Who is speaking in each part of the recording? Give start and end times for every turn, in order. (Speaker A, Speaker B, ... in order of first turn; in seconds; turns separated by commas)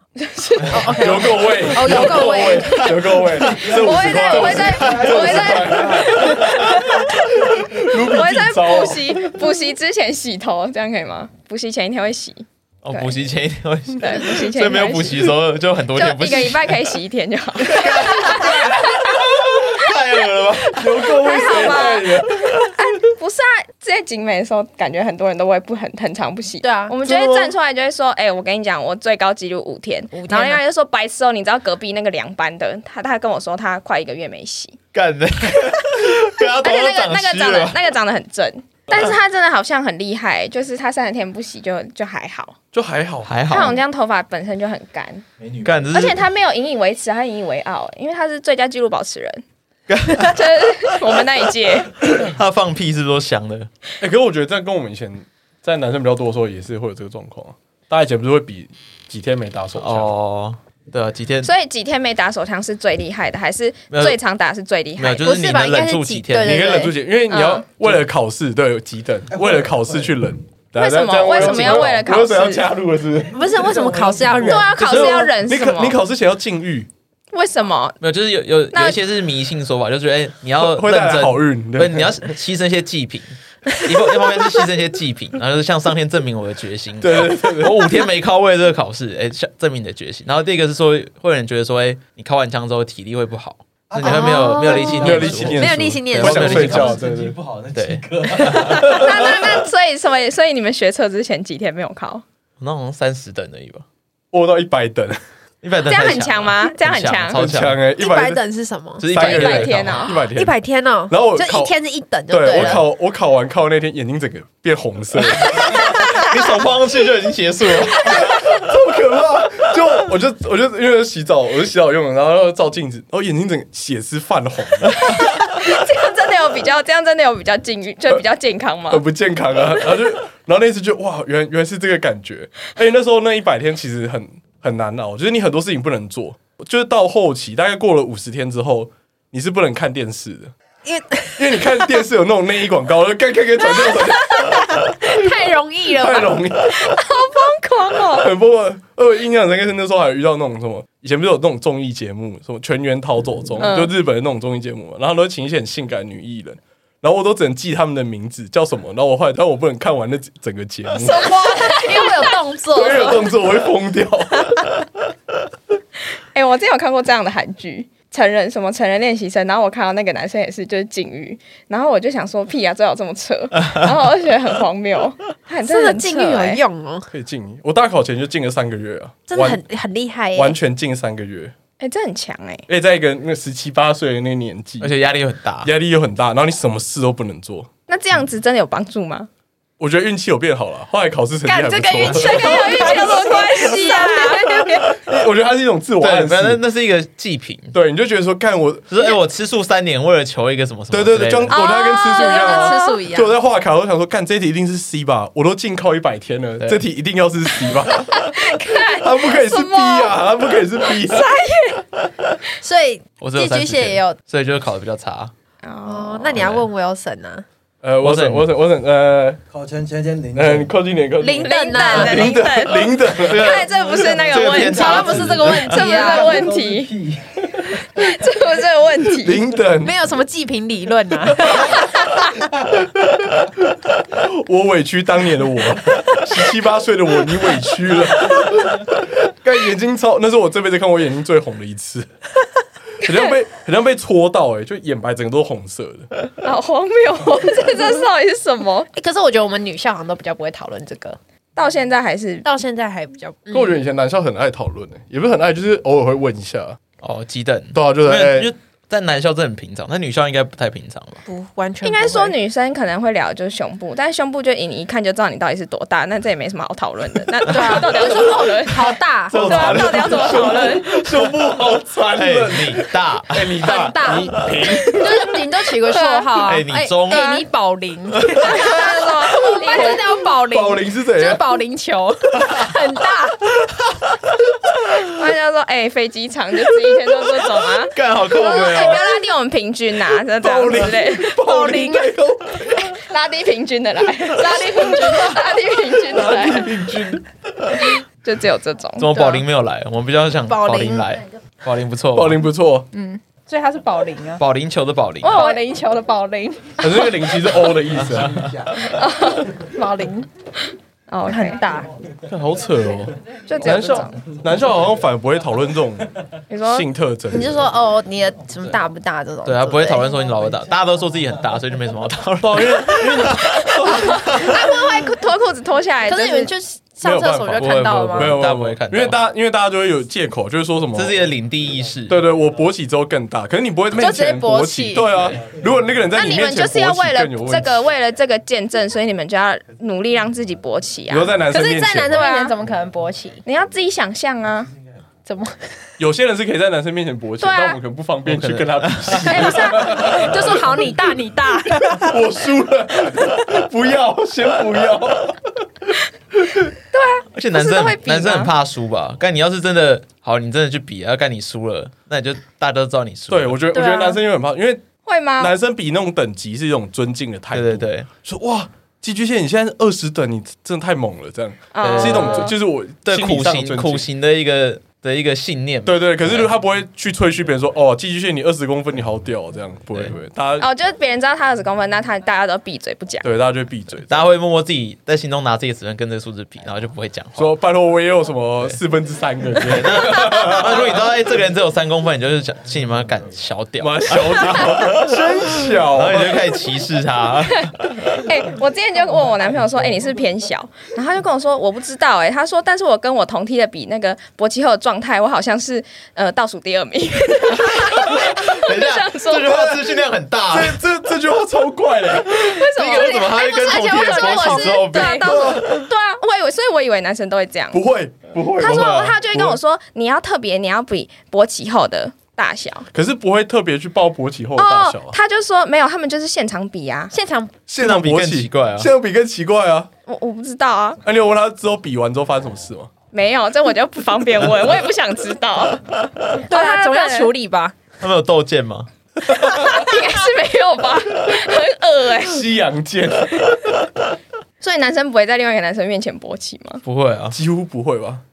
Speaker A: 0.1-2.9, Speaker B: 0.7-2.9, Speaker C: 0.9-9.4, Speaker D: 1.9-5.0, Speaker A: 3.5-13.2, Speaker E: 3.6-6.4, Speaker D: 12.8-16.7, Speaker A: 14.0-15.4, Speaker A: 15.9-19.2, Speaker D: 17.6-21.6, Speaker C: 20.7-22.7, Speaker A: 20.8-34.8, Speaker B: 26.6-26.9, Speaker B: 30.1-30.6, Speaker D: 34.9-37.8, Speaker A: 36.4-42.5, Speaker C: 42.7-43.3, Speaker D: 43.2-43.8, Speaker A: 43.5-45.2, Speaker D: 45.6-46.2, Speaker A: 45.9-49.4, Speaker D: 49.9-50.4, Speaker A: 50.2-52.1, Speaker D: 52.0-53.7, Speaker C: 54.0-60.1, Speaker D: 59.8-61.5, Speaker A: 61.4-65.4, Speaker D: 63.9-64.2, Speaker D: 65.0-66.8, Speaker B: 65.2-67.0, Speaker C: 66.4-76.9, Speaker A: 67.3-67.7, Speaker A: 70.8-72.7, Speaker D: 71.4-72.0, Speaker B: 73.3-75.3, Speaker A: 74.4-76.0, Speaker A: 77.3-78.0, Speaker D: 78.0-96.9, Speaker A: 78.7-79.0, Speaker C: 80.6-82.2, Speaker C: 87.0-88.0, Speaker E: 93.9-95.8, Speaker B: 94.0-96.9, Speaker C: 94.9-97.4, Speaker E: 96.4-99.0, Speaker D: 97.7-99.3, Speaker A: 98.8-102.2, Speaker B: 99.0-99.2, Speaker D: 102.6-103.8, Speaker C: 104.3-105.2, Speaker D: 105.6-107.8, Speaker A: 105.8-107.4, Speaker C: 107.3-108.4, Speaker B: 108.0-109.0, Speaker D: 109.0-110.1, Speaker C: 109.1-110.6, Speaker A: 109.1-110.2, Speaker B: 110.2-112.8, Speaker C: 111.1-111.7, Speaker C: 112.3-115.9, Speaker D: 112.5-112.8, Speaker D: 115.7-118.2, Speaker B: 115.8-116.3, Speaker C: 118.0-125.1, Speaker A: 125.0-129.0, Speaker C: 128.9-140.5, Speaker B: 140.8-141.9, Speaker C: 141.4-145.3, Speaker B: 143.7-147.0, Speaker C: 145.9-147.0, Speaker A: 147.0-148.3, Speaker C: 148.2-161.2, Speaker A: 153.6-153.9, Speaker B: 161.0-163.3, Speaker A: 161.2-162.4, Speaker C: 162.7-164.6, Speaker A: 166.3-176.6, Speaker B: 175.6-177.1, Speaker C: 177.1-179.6, Speaker B: 179.3-180.6, Speaker C: 180.3-181.5, Speaker A: 181.8-182.7, Speaker C: 182.7-184.9, Speaker D: 184.8-185.7, Speaker C: 185.6-187.7, Speaker A: 187.9-189.3, Speaker C: 189.8-193.0, Speaker B: 191.4-194.8, Speaker A: 192.1-194.9, Speaker C: 195.0-196.6, Speaker D: 196.0-197.8, Speaker C: 197.7-198.9, Speaker D: 198.9-201.6, Speaker C: 200.9-208.3, Speaker A: 201.5-203.0, Speaker B: 202.1-203.3, Speaker A: 207.9-210.2, Speaker C: 208.8-211.3, Speaker B: 211.2-211.8, Speaker B: 212.6-214.2, Speaker D: 213.2-215.3, Speaker A: 215.6-216.4, Speaker B: 215.8-217.4, Speaker D: 216.3-216.7, Speaker C: 217.8-219.4, Speaker D: 218.0-218.5, Speaker E: 219.5-220.7, Speaker C: 220.3-223.5, Speaker B: 221.2-222.3, Speaker A: 221.4-226.9, Speaker D: 223.2-225.9, Speaker B: 224.3-226.5, Speaker E: 225.9-227.4, Speaker A: 227.8-229.4, Speaker C: 229.1-229.9, Speaker B: 229.8-232.3, Speaker C: 234.1-242.1, Speaker C: 243.0-246.1, Speaker A: 243.0-243.3, Speaker A: 246.4-248.9, Speaker B: 248.9-251.2, Speaker A: 251.6-252.4, Speaker B: 252.4-253.8, Speaker C: 253.5-256.8, Speaker D: 257.0-261.2, Speaker C: 257.7-258.5, Speaker B: 261.2-262.4, Speaker A: 261.8-271.0, Speaker B: 267.4-269.8, Speaker D: 269.3-270.9, Speaker C: 269.3-275.2, Speaker D: 272.1-274.9, Speaker B: 273.6-283.5, Speaker A: 274.9-276.6, Speaker D: 276.4-277.4, Speaker A: 277.1-277.4, Speaker A: 278.4-280.1, Speaker C: 279.7-281.4, Speaker A: 285.1-291.4, Speaker D: 287.9-289.0, Speaker C: 290.4-293.0, Speaker B: 291.4-292.1, Speaker A: 292.9-296.7, Speaker B: 294.3-295.6, Speaker C: 296.1-297.2, Speaker A: 298.2-299.1, Speaker D: 299.0-302.4, Speaker B: 299.1-299.4, Speaker B: 300.5-301.2, Speaker C: 302.1-302.9, Speaker B: 302.9-304.4, Speaker D: 304.4-305.4, Speaker A: 305.2-305.6, Speaker B: 305.3-307.7, Speaker C: 306.8-308.5, Speaker E: 308.2-308.8, Speaker A: 308.8-309.5, Speaker B: 309.6-310.3, Speaker A: 310.7-311.6, Speaker B: 311.2-311.9, Speaker C: 312.3-317.6, Speaker A: 313.5-314.3, Speaker A: 316.5-316.9, Speaker B: 317.3-320.1, Speaker D: 319.4-324.7, Speaker C: 322.4-324.2, Speaker A: 323.6-326.5, Speaker B: 326.1-328.4, Speaker C: 327.0-331.3, Speaker D: 327.5-329.2, Speaker D: 330.9-332.2, Speaker C: 332.1-337.9, Speaker B: 333.9-335.1, Speaker A: 336.1-342.6, Speaker C: 341.1-342.2, Speaker B: 341.5-343.4, Speaker A: 343.4-344.7, Speaker B: 345.2-345.8, Speaker C: 346.0-350.8, Speaker A: 347.4-347.8, Speaker D: 348.2-349.5, Speaker B: 349.2-352.2, Speaker C: 351.9-355.5, Speaker A: 356.9-358.5, Speaker D: 357.3-363.6, Speaker C: 363.3-364.9, Speaker B: 363.7-364.2, Speaker A: 365.1-365.5, Speaker C: 365.4-374.1, Speaker D: 367.5-368.1, Speaker A: 371.7-372.5, Speaker D: 371.8-376.5, Speaker C: 375.8-380.7, Speaker A: 380.6-383.2, Speaker C: 383.2-384.2, Speaker D: 384.1-387.5, Speaker C: 387.4-391.0, Speaker D: 389.5-398.2, Speaker C: 393.8-396.6, Speaker A: 397.6-409.8, Speaker D: 407.8-410.8, Speaker C: 410.5-412.5, Speaker A: 412.3-417.8, Speaker D: 412.4-415.6, Speaker B: 413.5-415.0, Speaker C: 415.2-415.8, Speaker C: 417.7-419.6, Speaker A: 418.6-422.9, Speaker D: 418.6-419.2, Speaker C: 422.9-425.1, Speaker A: 424.6-427.1, Speaker B: 427.1-427.6, Speaker C: 427.7-429.9, Speaker D: 427.8-428.9, Speaker A: 430.1-431.0, Speaker C: 431.0-432.9, Speaker A: 433.1-437.3, Speaker B: 436.4-437.7, Speaker D: 438.0-438.9, Speaker A: 439.5-442.5, Speaker C: 442.2-443.9, Speaker A: 444.6-446.8, Speaker D: 446.8-447.4, Speaker C: 447.3-448.2